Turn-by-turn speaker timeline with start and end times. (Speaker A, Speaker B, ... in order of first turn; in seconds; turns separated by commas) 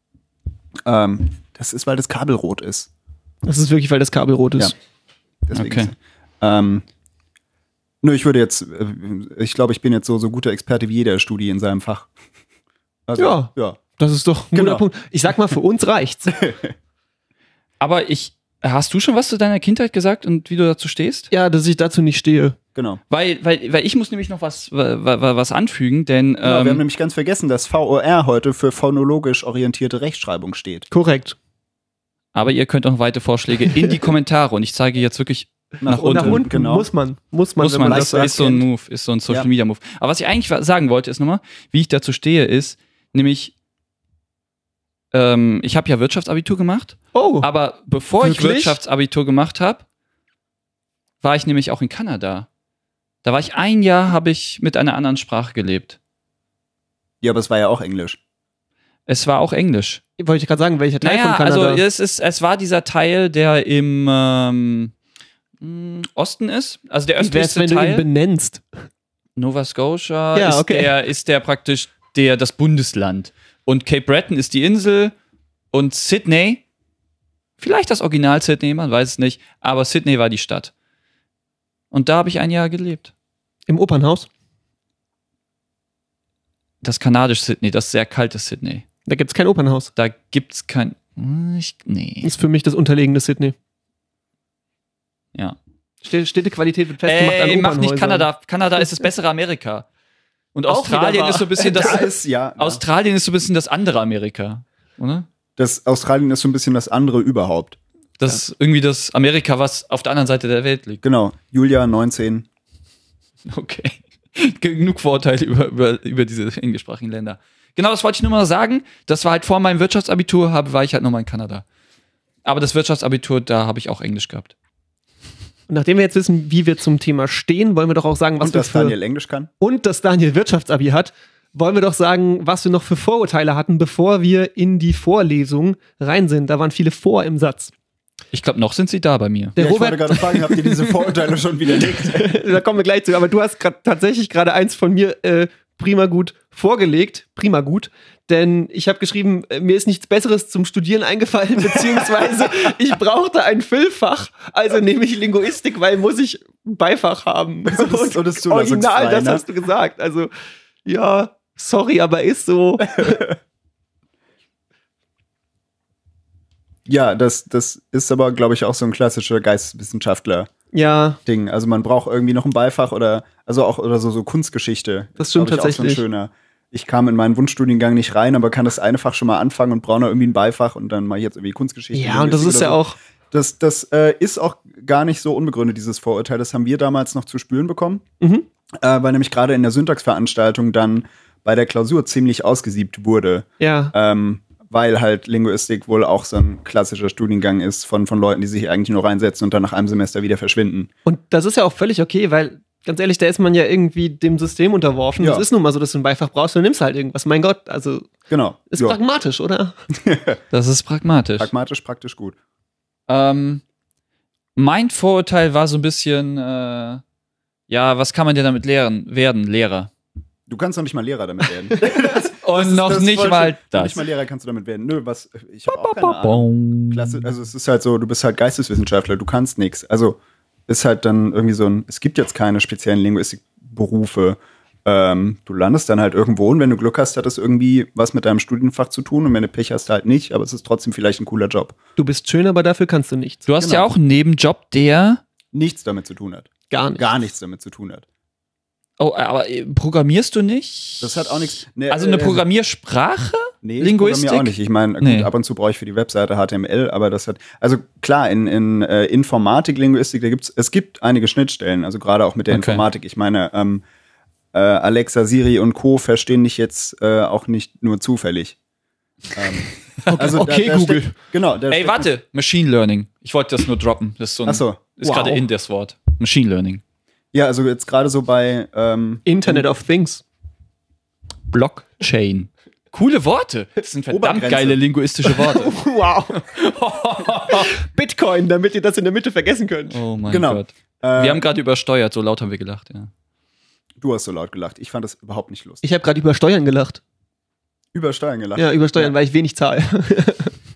Speaker A: 0.8-2.9, Speaker B: 3.5-4.7, Speaker A: 5.5-6.8, Speaker C: 5.5-5.9, Speaker A: 8.0-12.1, Speaker A: 13.1-13.8, Speaker B: 13.2-16.5, Speaker A: 14.5-14.9, Speaker A: 16.3-16.7, Speaker C: 17.8-21.3, Speaker B: 21.3-22.6, Speaker A: 22.8-23.0, Speaker C: 23.1-26.8, Speaker A: 26.4-30.9, Speaker B: 30.9-31.4, Speaker C: 32.4-36.5, Speaker B: 33.7-34.0, Speaker A: 35.8-36.9, Speaker B: 35.9-38.6, Speaker C: 37.6-43.5, Speaker A: 37.9-38.5, Speaker C: 45.1-49.8, Speaker B: 47.1-47.5, Speaker B: 48.2-48.8, Speaker C: 51.2-52.5, Speaker C: 53.2-56.0, Speaker A: 57.2-58.2, Speaker C: 59.1-60.0, Speaker B: 60.2-61.8, Speaker C: 61.0-64.9, Speaker C: 65.6-68.0, Speaker B: 67.2-68.6, Speaker C: 69.4-75.1, Speaker B: 70.3-70.9, Speaker C: 75.7-76.6, Speaker C: 77.6-80.7, Speaker C: 81.9-83.1, Speaker B: 83.7-84.3, Speaker C: 86.8-88.8, Speaker B: 89.1-89.9, Speaker C: 90.0-92.3, Speaker B: 92.2-93.5, Speaker B: 96.0-98.3, Speaker C: 97.0-99.9, Speaker C: 100.5-105.2, Speaker B: 100.7-102.1, Speaker A: 101.7-102.8, Speaker A: 105.6-107.8, Speaker C: 108.2-111.0, Speaker A: 111.0-112.5, Speaker C: 113.5-121.6, Speaker C: 122.5-124.5, Speaker B: 125.7-129.0, Speaker A: 128.4-129.5, Speaker B: 129.6-137.7, Speaker C: 138.3-139.6, Speaker B: 139.6-160.3, Speaker A: 139.6-142.4, Speaker A: 151.7-152.7, Speaker A: 157.7-159.4, Speaker B: 160.8-163.3, Speaker A: 163.0-163.3, Speaker A: 166.9-170.5, Speaker B: 170.7-171.2, Speaker A: 171.2-188.0, Speaker B: 175.2-176.0, Speaker B: 181.9-183.0, Speaker B: 188.2-188.5, Speaker A: 188.8-200.9, Speaker B: 193.6-193.9, Speaker B: 201.1-208.2, Speaker A: 205.2-205.5, Speaker A: 208.3-209.0, Speaker B: 208.7-209.8, Speaker A: 209.9-210.4, Speaker C: 210.5-211.5, Speaker A: 211.4-212.4, Speaker C: 213.1-213.6, Speaker C: 214.6-217.0, Speaker C: 217.7-219.9, Speaker A: 220.5-241.8, Speaker C: 222.4-224.0, Speaker C: 225.8-227.2, Speaker B: 242.0-243.5, Speaker C: 243.5-245.2, Speaker A: 243.6-243.9, Speaker A: 245.5-248.1, Speaker B: 246.7-247.1, Speaker C: 249.0-255.3, Speaker A: 251.0-252.4, Speaker A: 253.6-263.8, Speaker C: 262.5-262.9, Speaker A: 264.5-268.6, Speaker A: 269.3-272.1, Speaker B: 270.1-271.1, Speaker C: 271.7-276.8, Speaker A: 274.4-274.8, Speaker B: 275.0-275.4, Speaker A: 277.3-279.7, Speaker B: 279.2-280.2, Speaker C: 281.5-285.8, Speaker A: 284.1-284.8, Speaker B: 285.3-286.4, Speaker C: 286.3-287.8, Speaker B: 287.5-290.0, Speaker C: 289.9-293.1, Speaker A: 290.3-291.4, Speaker A: 294.0-295.8, Speaker B: 295.8-297.0, Speaker A: 297.9-299.1, Speaker B: 298.6-300.5